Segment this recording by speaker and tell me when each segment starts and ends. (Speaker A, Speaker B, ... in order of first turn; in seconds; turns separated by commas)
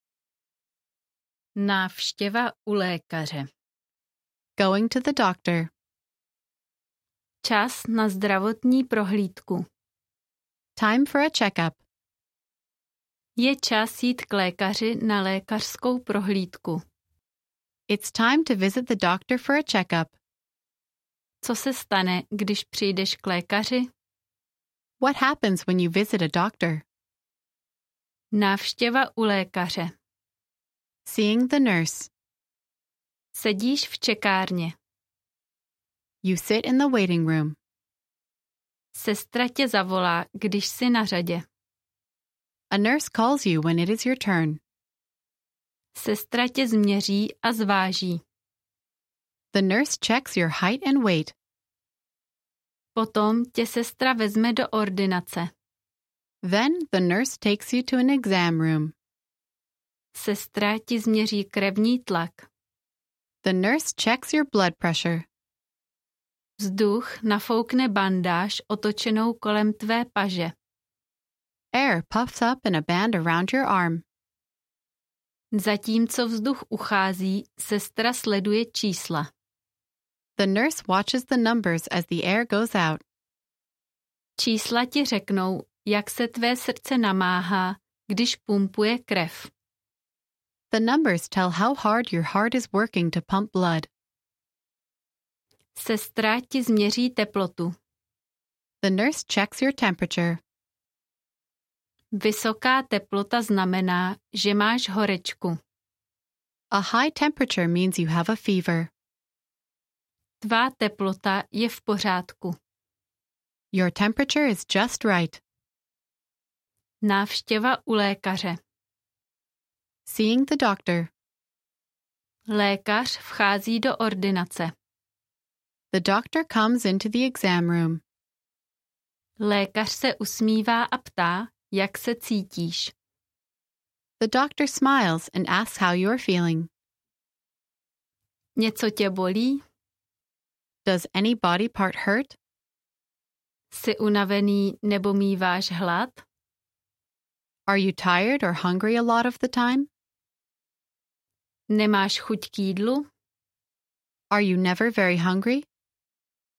Speaker A: 1.6-3.5, Speaker B: 4.6-5.7, Speaker A: 7.4-9.6, Speaker B: 10.8-11.8, Speaker A: 13.4-16.8, Speaker B: 17.9-20.1, Speaker A: 21.4-23.9, Speaker B: 25.0-26.8, Speaker A: 28.3-29.9, Speaker B: 31.1-32.1, Speaker A: 33.3-34.7, Speaker B: 36.2-37.5, Speaker A: 38.9-41.4, Speaker B: 42.7-44.6, Speaker A: 45.9-48.2, Speaker B: 49.5-51.3, Speaker A: 52.9-55.5, Speaker B: 56.4-58.9, Speaker A: 60.1-62.5, Speaker B: 63.4-65.2, Speaker A: 66.6-70.5, Speaker B: 71.7-74.0, Speaker A: 75.5-79.3, Speaker B: 80.4-83.0, Speaker A: 84.4-89.5, Speaker B: 90.7-93.9, Speaker A: 95.8-97.7, Speaker B: 98.8-100.4, Speaker A: 102.1-105.6, Speaker B: 106.7-108.9, Speaker A: 110.4-112.6, Speaker B: 113.7-115.4, Speaker A: 117.0-118.6, Speaker B: 120.0-121.1, Speaker A: 122.5-124.7, Speaker B: 125.9-128.0, Speaker A: 129.4-132.9, Speaker B: 134.2-136.7, Speaker A: 138.6-139.6, Speaker B: 140.8-142.4, Speaker A: 143.7-146.2, Speaker B: 147.7-149.9, Speaker A: 151.7-153.1, Speaker B: 154.3-155.7